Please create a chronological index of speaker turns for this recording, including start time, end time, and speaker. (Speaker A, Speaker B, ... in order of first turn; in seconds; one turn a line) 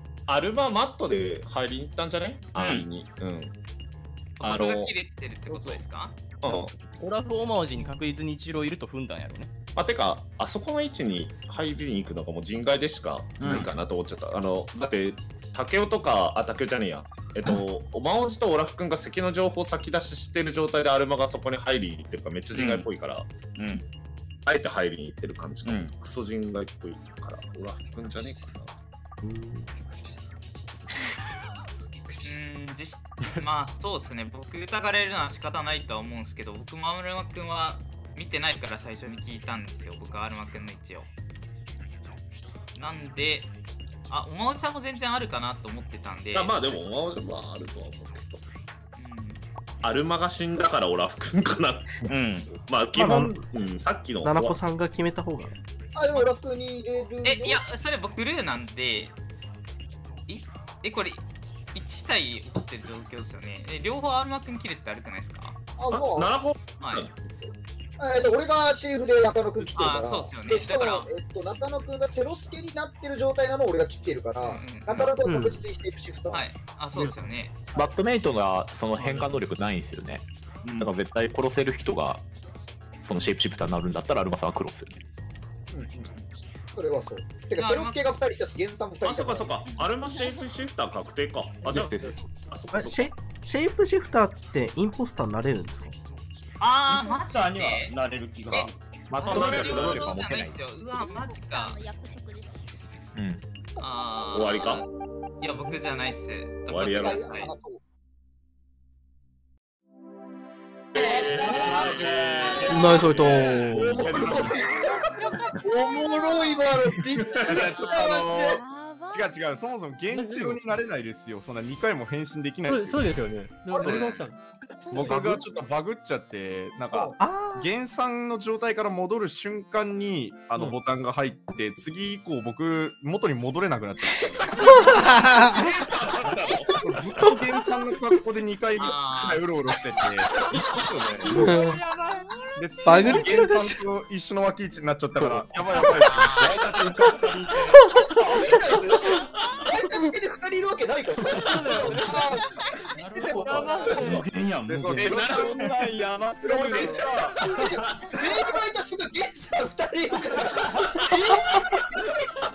Speaker A: 0.3-3.5
Speaker B: 2.5-2.9
Speaker B: 4.4-6.2
Speaker A: 4.4-4.9
Speaker C: 5.5-5.8
Speaker A: 6.4-6.7
Speaker C: 7.0-9.5
Speaker A: 9.8-23.3
Speaker D: 13.4-13.7
Speaker D: 22.5-22.9
Speaker D: 23.6-23.8
Speaker A: 24.4-28.7
Speaker D: 25.6-25.9
Speaker E: 29.2-29.7
Speaker B: 32.2-41.1
Speaker B: 42.8-43.5
Speaker B: 44.1-46.5
Speaker A: 46.3-48.4
Speaker B: 49.0-49.4
Speaker A: 49.8-54.6
Speaker D: 52.1-52.5
Speaker E: 52.9-53.3
Speaker E: 54.2-55.5
Speaker F: 55.9-57.6
Speaker B: 57.2-59.1
Speaker B: 60.3-65.6
Speaker F: 65.8-66.4
Speaker A: 65.9-67.2
Speaker B: 66.8-67.0
Speaker F: 67.3-76.5
Speaker B: 69.8-71.1
Speaker B: 74.4-75.1
Speaker G: 75.2-75.6
Speaker B: 76.3-77.5
Speaker H: 77.7-80.2
Speaker B: 79.0-79.2
Speaker B: 80.6-80.9
Speaker H: 80.8-82.2
Speaker H: 83.0-85.0
Speaker F: 85.7-86.2
Speaker F: 86.7-89.5
Speaker B: 87.6-88.0
Speaker A: 89.0-93.1
Speaker H: 91.6-92.2
Speaker E: 92.7-95.9
Speaker B: 96.6-97.9
Speaker D: 96.9-98.7
Speaker B: 98.5-101.8
Speaker H: 98.6-100.6
Speaker A: 99.2-100.1
Speaker G: 101.0-102.8
Speaker H: 103.1-103.4
Speaker B: 103.8-104.9
Speaker A: 104.3-104.8
Speaker B: 105.4-107.5
Speaker A: 106.7-107.5
Speaker F: 106.8-107.8
Speaker A: 110.9-112.8
Speaker D: 111.0-113.1
Speaker F: 111.0-111.6
Speaker G: 112.3-113.0
Speaker E: 112.7-114.0
Speaker A: 113.7-114.9
Speaker F: 113.7-115.0
Speaker F: 115.6-118.6
Speaker G: 116.0-116.6
Speaker A: 117.2-117.7
Speaker I: 117.6-123.2
Speaker G: 118.4-119.2
Speaker G: 120.1-120.6
Speaker G: 122.7-124.4
Speaker I: 123.7-124.2
Speaker G: 124.9-125.4
Speaker I: 124.9-135.1
Speaker F: 126.9-127.2
Speaker E: 127.2-127.7
Speaker E: 134.6-135.7
Speaker A: 135.5-136.7
Speaker I: 136.7-141.1
Speaker E: 137.2-137.4
Speaker B: 138.8-140.9
Speaker E: 141.3-141.8
Speaker I: 142.5-147.5
Speaker E: 142.8-143.8
Speaker B: 146.0-146.8
Speaker A: 146.5-147.3
Speaker F: 148.2-154.2
Speaker C: 151.4-152.3
Speaker G: 153.4-154.2
Speaker D: 154.0-155.7
Speaker I: 154.7-157.4
Speaker A: 155.0-155.6
Speaker F: 156.4-162.1
Speaker A: 156.4-157.2